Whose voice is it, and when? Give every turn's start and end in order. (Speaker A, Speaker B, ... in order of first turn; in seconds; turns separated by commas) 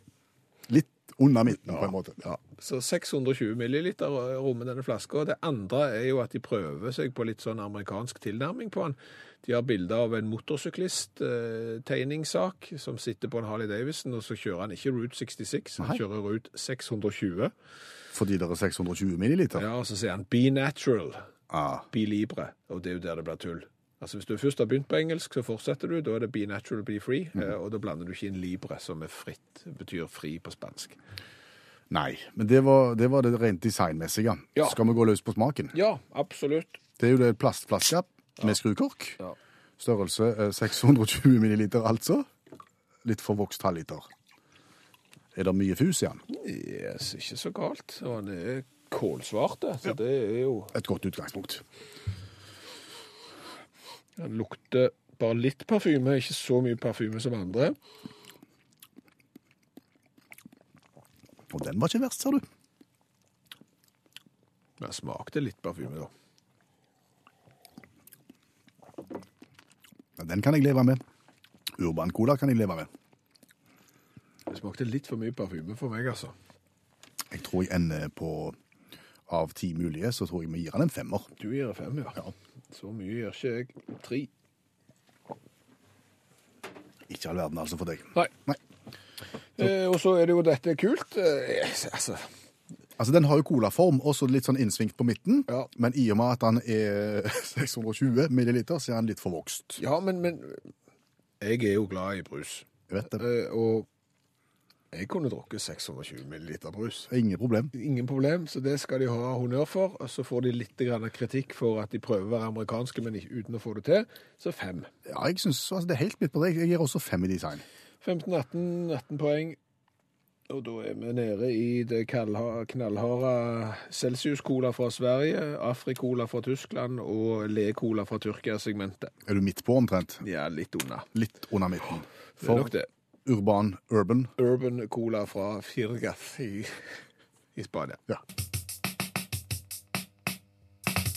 Speaker A: 0.7-2.2, Speaker B: 1.8-17.5, Speaker A: 18.1-19.6, Speaker B: 19.5-21.2, Speaker A: 21.5-21.9, Speaker B: 21.9-31.0, Speaker A: 31.9-35.7, Speaker B: 35.7-36.8, Speaker A: 37.0-39.2, Speaker A: 39.8-42.3, Speaker A: 43.0-44.1, Speaker A: 45.4-46.2, Speaker B: 46.3-50.7, Speaker A: 50.7-51.6, Speaker B: 54.2-57.8, Speaker A: 61.5-62.4, Speaker B: 64.8-66.1, Speaker A: 70.2-71.0, Speaker A: 71.8-72.9, Speaker B: 74.5-76.3, Speaker A: 77.3-78.5, Speaker A: 79.3-81.3, Speaker B: 81.4-84.3, Speaker A: 87.1-88.6, Speaker B: 89.6-92.3, Speaker A: 93.0-99.8, Speaker B: 99.8-100.6, Speaker B: 101.4-103.9, Speaker A: 102.9-103.2, Speaker B: 104.9-107.1, Speaker A: 107.1-107.7, Speaker B: 107.7-114.9, Speaker A: 115.1-117.6, Speaker B: 118.0-119.6, Speaker B: 120.5-129.1, Speaker A: 129.2-130.2, Speaker B: 130.2-131.1, Speaker A: 131.1-132.7, Speaker B: 132.4-132.9, Speaker A: 133.2-134.3, Speaker B: 134.4-136.8, Speaker B: 137.6-138.0